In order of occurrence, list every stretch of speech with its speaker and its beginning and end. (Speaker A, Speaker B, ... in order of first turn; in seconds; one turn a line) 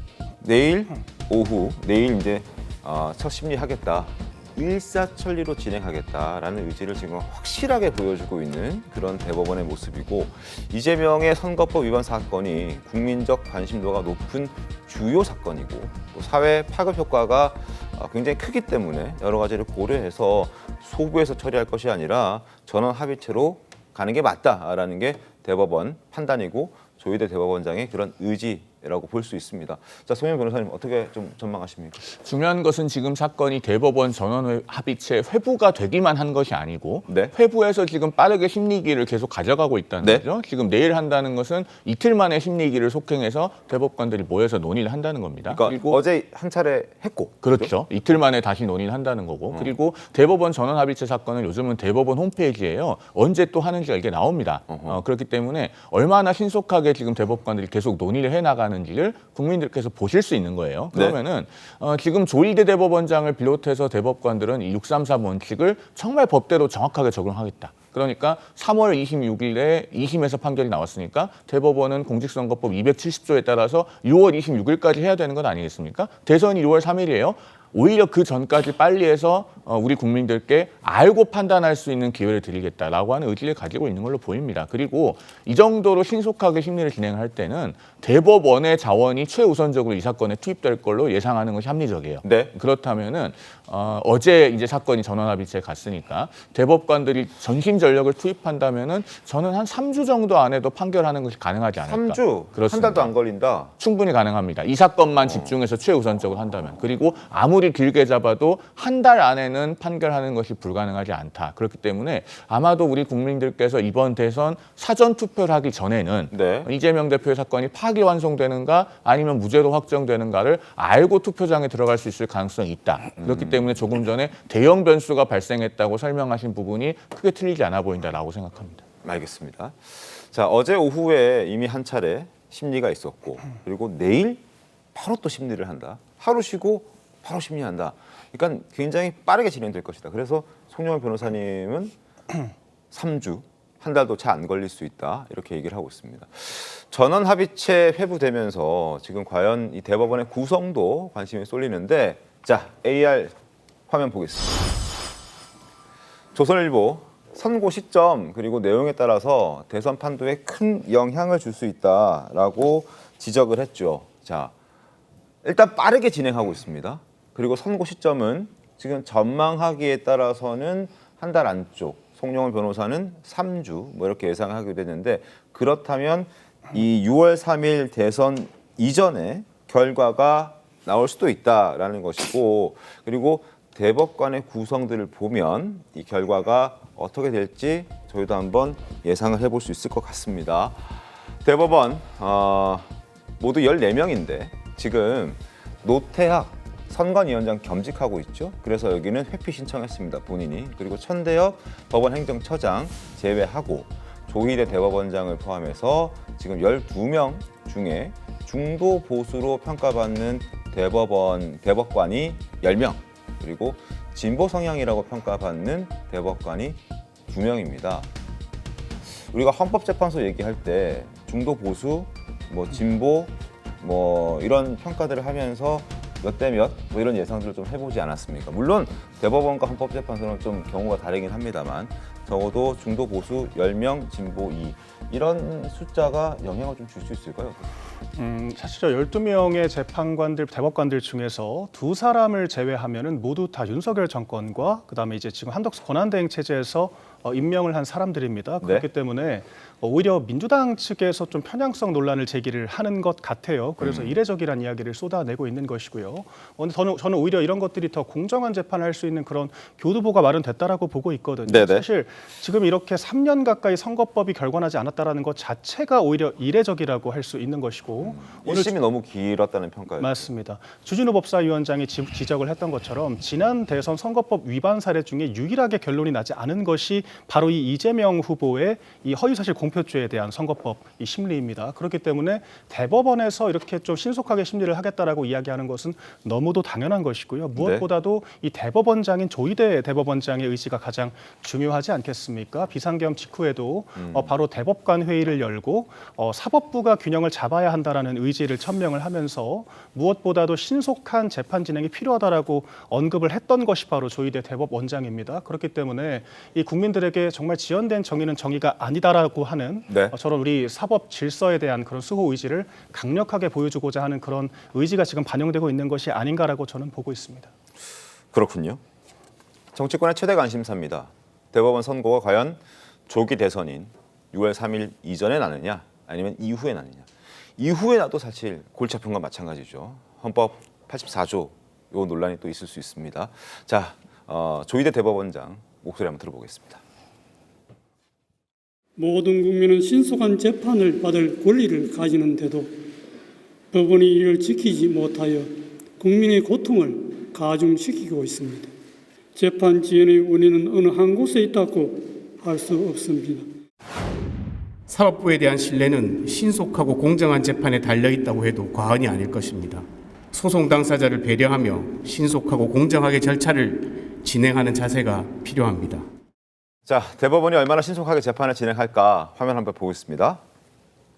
Speaker A: 0.4-32.0
Speaker B: 32.0-46.0
Speaker A: 37.1-37.3
Speaker A: 45.5-47.7
Speaker B: 47.4-103.1
Speaker A: 54.7-55.0
Speaker A: 92.2-92.5
Speaker A: 101.8-103.7
Speaker B: 103.8-128.8
Speaker A: 116.3-116.7
Speaker A: 123.2-123.6
Speaker A: 129.0-134.4
Speaker A: 134.9-141.9
Speaker A: 142.9-153.3
Speaker A: 153.9-154.6
Speaker A: 156.3-164.5
Speaker A: 165.4-190.9
Speaker A: 191.4-218.1
Speaker A: 219.2-237.7
Speaker C: 238.2-268.8
Speaker A: 253.8-254.1
Speaker A: 261.5-261.9
Speaker A: 268.0-270.3
Speaker C: 270.0-317.5
Speaker A: 287.6-287.9
Speaker A: 294.0-294.3
Speaker A: 309.9-310.1
Speaker A: 318.3-318.8
Speaker A: 319.8-336.8
Speaker D: 339.0-342.9
Speaker D: 343.7-348.7
Speaker D: 349.4-353.5
Speaker E: 355.1-359.8
Speaker E: 360.4-366.0
Speaker A: 366.9-370.4